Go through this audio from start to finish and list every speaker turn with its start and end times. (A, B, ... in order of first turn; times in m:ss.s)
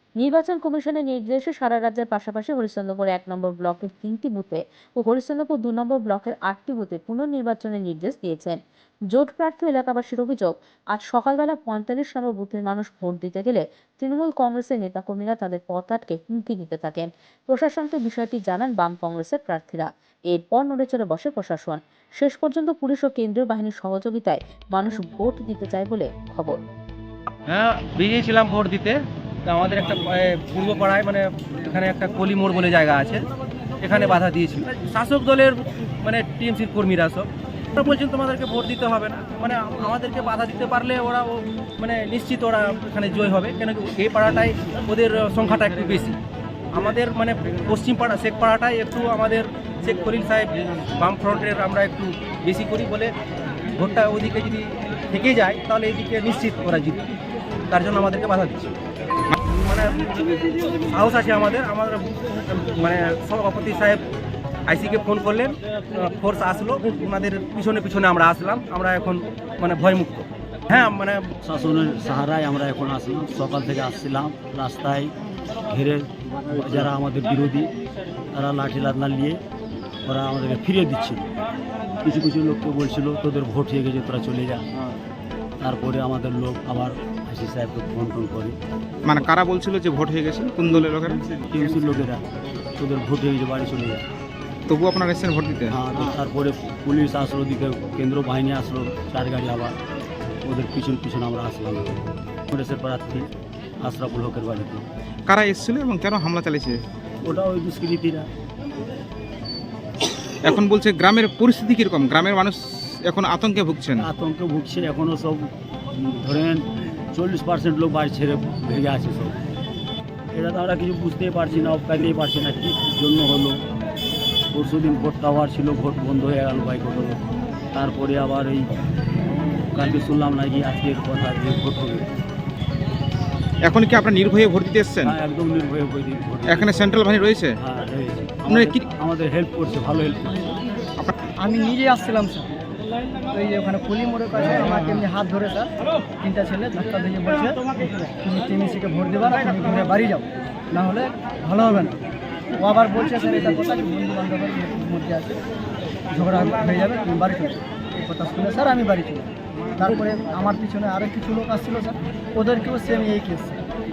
0:00.2-0:08.6 A
0:09.1-0:26.6 A
0:27.5-0:33.2 B
0:33.8-0:46.2 B
0:46.7-0:53.1 B
0:53.7-0:57.0 B
0:57.7-0:58.7 B
0:59.6-1:00.2 B
1:00.9-1:04.0 B
1:04.7-1:11.3 B
1:11.4-1:15.1 C
1:15.7-1:17.7 C
1:18.3-1:19.4 C
1:20.0-1:21.3 C
1:22.0-1:24.6 C
1:25.6-1:28.6 C
1:29.0-1:31.2 D
1:31.3-1:32.2 C
1:32.8-1:34.0 C
1:34.7-1:35.7 D
1:35.7-1:39.7 C
1:40.4-1:43.3 C
1:43.8-1:44.8 C
1:45.3-1:46.8 D
1:47.2-1:48.3 C
1:50.3-1:54.0 D
1:54.0-1:59.4 C
2:00.3-2:03.6 C
2:04.5-2:07.2 C
2:07.7-2:08.7 C
2:09.7-2:12.0 C
2:13.6-2:15.1 D
2:15.0-2:16.8 C
2:16.5-2:17.6 D
2:17.6-2:20.6 C
2:18.5-2:18.8 D
2:21.4-2:22.5 E
2:23.3-2:27.6 E
2:24.3-2:25.0 C
2:28.2-2:32.0 E
2:32.6-2:35.4 E
2:36.1-2:43.6 E